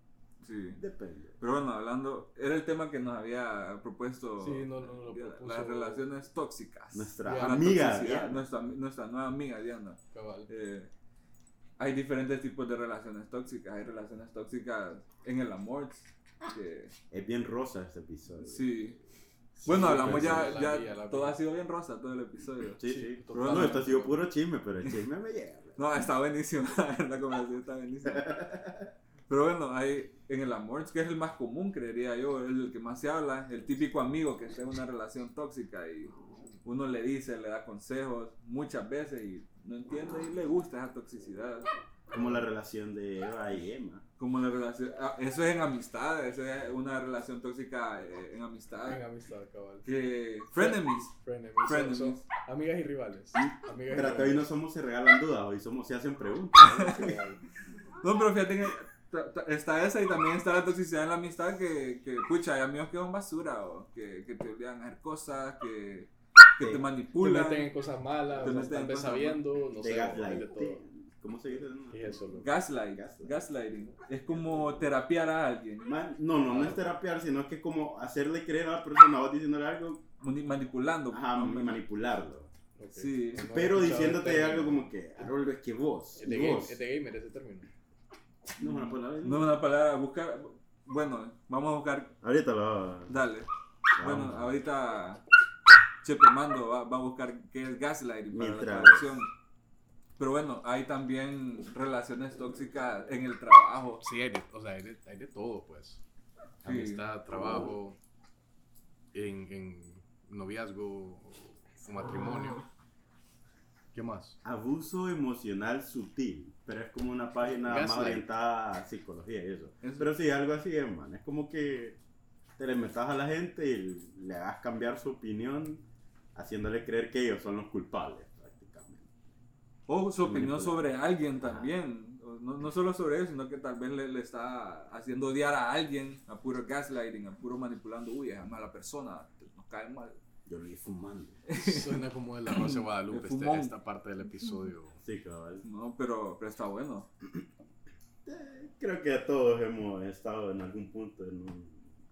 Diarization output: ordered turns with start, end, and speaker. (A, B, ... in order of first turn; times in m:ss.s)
0:00.4-0:00.8 A
0:00.8-0:01.4 B
0:01.4-0:10.9 A
0:04.4-0:06.0 C
0:06.9-0:08.5 B
0:07.2-0:07.7 C
0:10.1-0:10.5 C
0:11.8-0:16.9 A
0:17.1-0:18.7 B
0:18.4-0:19.0 A
0:19.6-0:21.4 C
0:19.6-0:22.8 A
0:19.7-0:20.6 B
0:22.8-0:25.8 B
0:22.8-0:24.2 C
0:23.3-0:23.9 A
0:25.8-0:28.3 A
0:28.0-0:28.9 B
0:29.3-0:41.7 A
0:42.1-0:44.0 B
0:44.2-0:49.0 A
0:48.9-0:49.9 C
0:49.8-0:52.2 A
0:50.5-0:54.5 C
0:53.9-0:57.2 B
0:56.6-0:57.1 A
0:56.8-0:57.4 C
0:58.0-1:07.7 A
1:06.6-1:06.8 B
1:07.2-1:10.8 C
1:08.4-1:09.4 A
1:09.8-1:12.3 B
1:11.9-1:12.5 C
1:12.4-1:15.9 A
1:12.9-1:13.4 B
1:14.3-1:15.0 B
1:15.8-1:20.0 B
1:16.5-1:16.8 C
1:20.2-1:21.8 A
1:21.1-1:22.5 B
1:22.8-1:24.9 C
1:22.9-1:23.5 A
1:23.4-1:26.8 B
1:26.2-1:27.7 C
1:28.6-1:29.5 B
1:28.6-1:32.1 A
1:32.2-1:33.2 B
1:33.1-1:35.2 A
1:34.0-1:34.6 B
1:36.0-1:39.3 A
1:38.3-1:39.1 B
1:40.2-1:44.0 A
1:44.0-1:46.0 C
1:46.6-1:47.1 A
1:46.6-1:48.0 C
1:47.3-1:47.7 B
1:49.1-1:52.6 C
1:53.9-1:54.4 C
1:54.4-2:02.0 B
1:57.5-1:58.2 C
1:59.8-2:00.1 A
2:02.6-2:09.2 B
2:09.9-2:20.2 A
2:10.2-2:11.7 B
2:20.4-2:21.4 B
2:21.5-2:23.7 A
2:21.5-2:25.0 C
2:25.0-2:25.6 B
2:25.6-2:27.1 A
2:28.2-2:31.9 B